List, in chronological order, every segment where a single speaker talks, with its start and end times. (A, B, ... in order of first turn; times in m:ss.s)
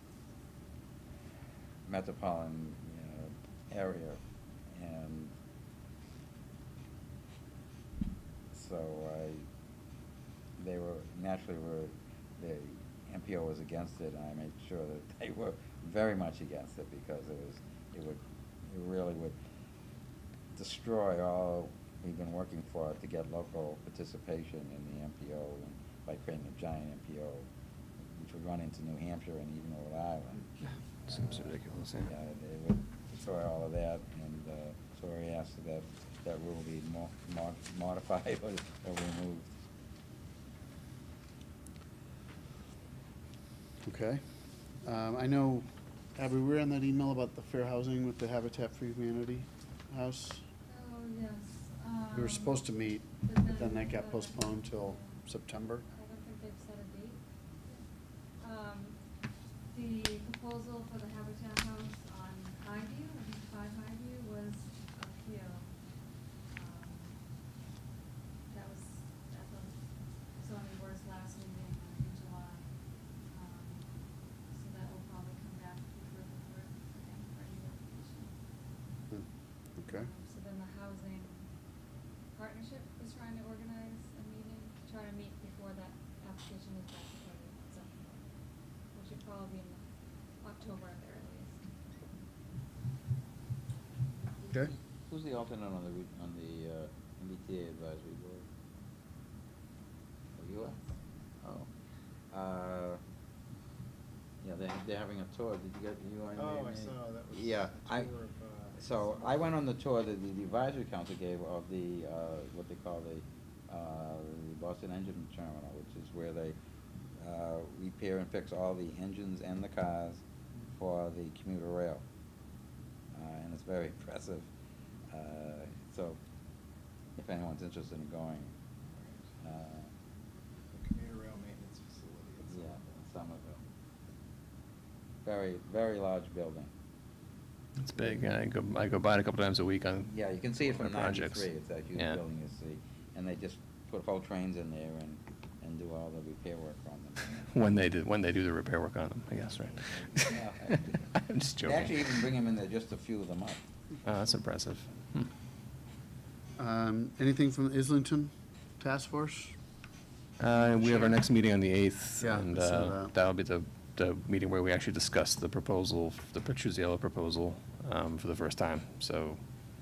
0:01.9-0:05.4 A
0:08.5-0:09.5 A
0:10.6-0:19.4 A
0:20.5-0:27.5 A
0:28.1-0:30.5 A
0:31.1-0:32.1 B
0:32.0-0:39.5 A
0:43.8-0:44.2 C
0:44.8-0:50.4 C
0:50.7-0:55.2 D
0:52.1-0:55.9 C
0:55.9-0:57.8 D
0:58.4-0:59.0 D
0:59.7-1:05.7 D
1:06.5-1:07.2 D
1:08.5-1:18.4 D
1:19.1-1:20.1 C
1:19.9-1:21.5 D
1:22.3-1:28.3 D
1:28.8-1:31.6 D
1:34.5-1:38.5 A
1:40.4-1:40.8 A
1:41.4-1:41.7 A
1:42.3-1:43.0 A
1:44.4-1:48.1 A
1:46.4-1:49.4 E
1:48.7-1:56.6 A
1:57.2-2:02.0 A
2:03.1-2:04.5 A
2:05.1-2:06.2 A
2:07.2-2:08.6 A
2:09.4-2:09.9 A
2:10.7-2:12.6 E
2:12.4-2:13.6 A
2:15.2-2:16.7 A
2:17.8-2:20.1 B
2:20.1-2:27.6 A
2:20.7-2:22.2 B
2:27.5-2:32.2 B
2:30.3-2:31.0 A
2:31.6-2:33.6 A
2:34.0-2:35.3 B
2:36.6-2:39.6 C
2:40.4-2:49.4 B
2:40.5-2:41.2 C
2:42.2-2:43.1 C